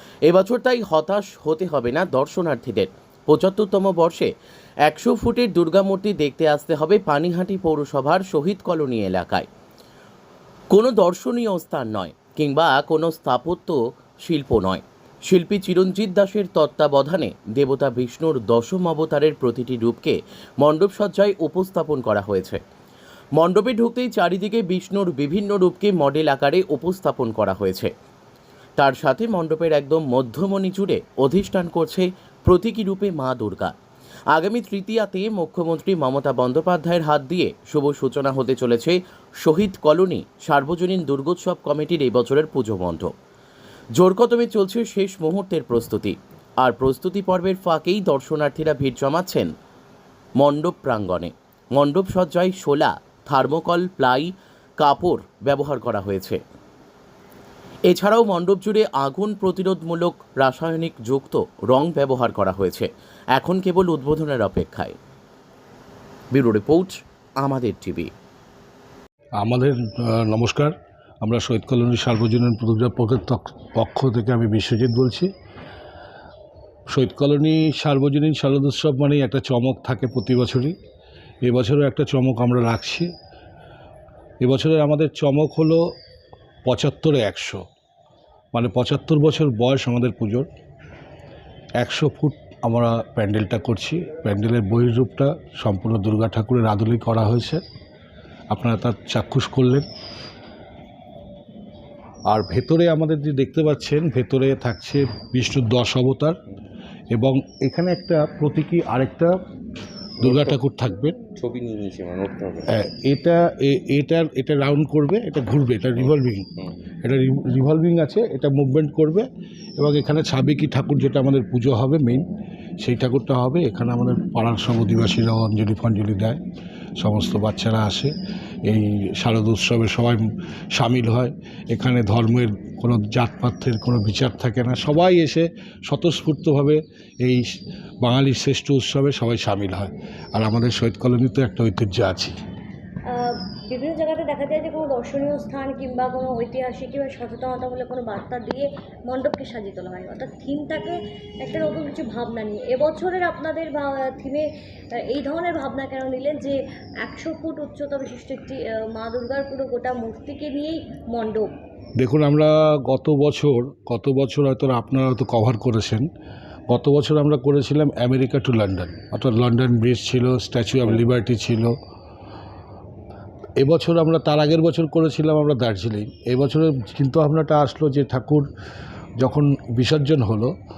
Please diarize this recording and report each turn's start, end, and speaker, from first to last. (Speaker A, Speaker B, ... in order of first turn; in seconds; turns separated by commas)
Speaker A: 0.2-4.3, Speaker A: 4.8-9.5, Speaker A: 10.7-22.6, Speaker A: 23.4-27.9, Speaker A: 28.8-33.7, Speaker A: 34.3-43.1, Speaker A: 44.0-49.5, Speaker A: 50.4-56.4, Speaker A: 57.8-65.0, Speaker A: 66.3-68.1, Speaker B: 69.4-75.3, Speaker B: 76.9-80.7, Speaker B: 81.4-83.1, Speaker B: 84.4-85.9, Speaker B: 86.6-87.6, Speaker B: 88.5-90.5, Speaker B: 91.8-97.6, Speaker B: 98.5-99.8, Speaker B: 102.3-106.4, Speaker B: 107.1-109.3, Speaker B: 110.2-111.2, Speaker C: 110.2-110.6, Speaker C: 111.3-112.7, Speaker B: 112.7-116.5, Speaker C: 116.0-116.7, Speaker B: 117.0-119.3, Speaker B: 119.8-122.3, Speaker B: 122.8-126.4, Speaker B: 127.0-128.1, Speaker B: 128.6-142.3, Speaker D: 143.1-154.5, Speaker D: 155.1-161.5, Speaker B: 162.0-166.1, Speaker B: 166.7-171.7, Speaker B: 173.6-178.5, Speaker B: 179.2-180.5